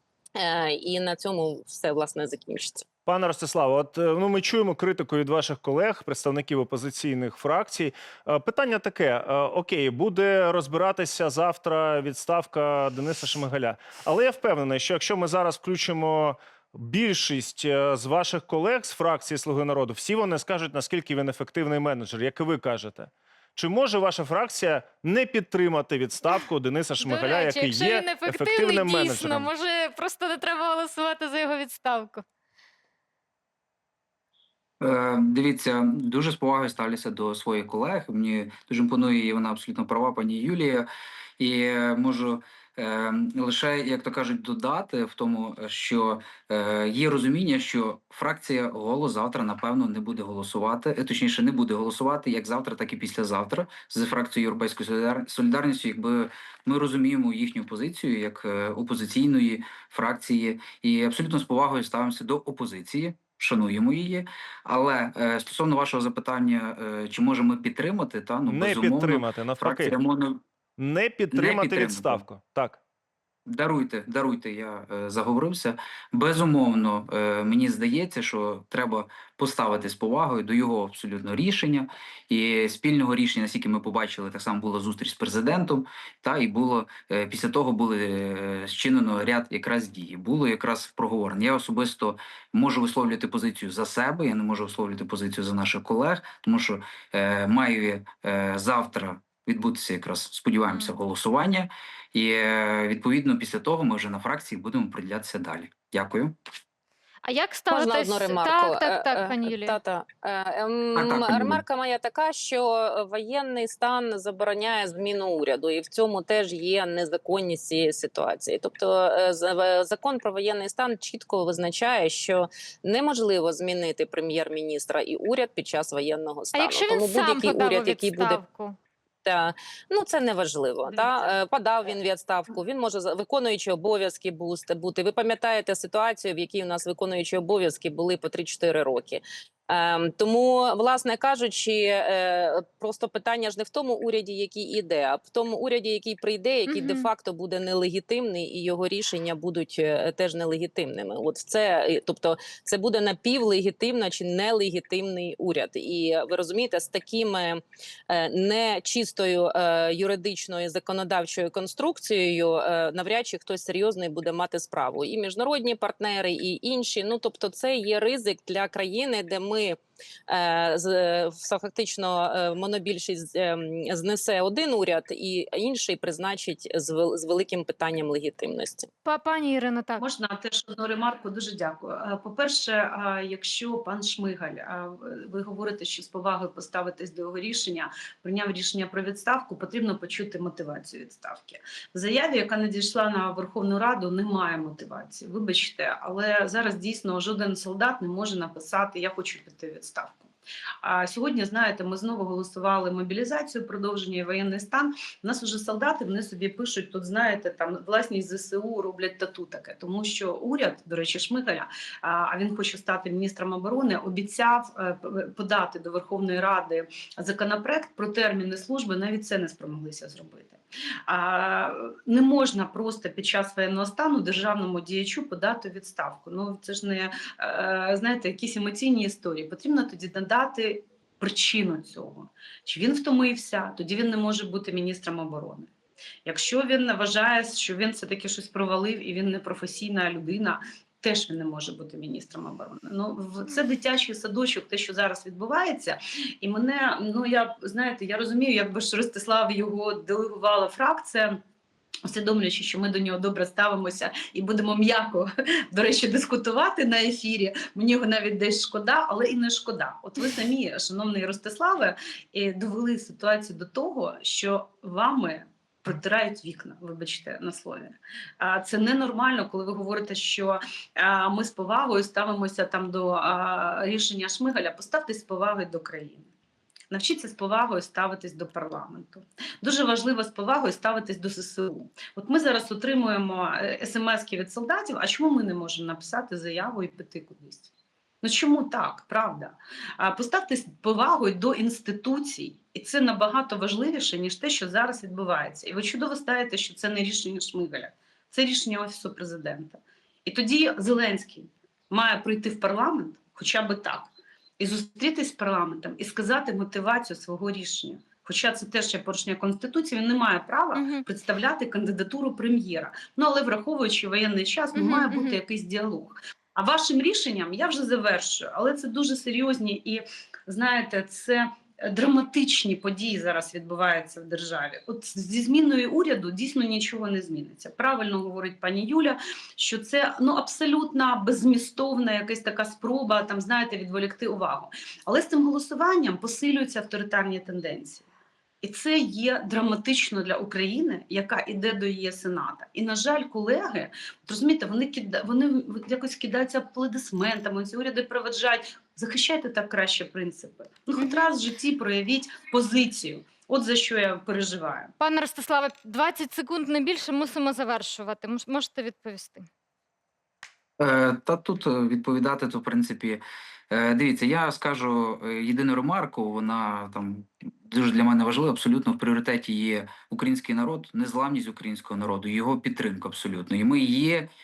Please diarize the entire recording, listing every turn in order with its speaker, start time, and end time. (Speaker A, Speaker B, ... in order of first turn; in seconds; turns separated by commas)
Speaker A: 0.4-2.9, Speaker B: 3.1-29.5, Speaker C: 27.0-32.2, Speaker D: 34.8-40.9, Speaker D: 41.4-70.4, Speaker B: 68.5-70.0, Speaker B: 70.8-72.8, Speaker D: 71.3-72.2, Speaker D: 73.5-106.3, Speaker C: 107.2-109.8, Speaker A: 107.7-128.4, Speaker D: 111.0-111.6, Speaker C: 126.5-128.8, Speaker A: 129.2-178.9, Speaker C: 146.7-147.1, Speaker C: 179.1-180.0, Speaker E: 180.0-200.3, Speaker E: 200.8-235.7, Speaker E: 236.2-251.4, Speaker E: 252.1-276.3, Speaker E: 276.9-287.7, Speaker E: 288.2-338.1, Speaker C: 310.8-311.1, Speaker C: 314.7-315.4, Speaker E: 338.6-354.9, Speaker C: 355.0-359.5, Speaker D: 360.8-374.3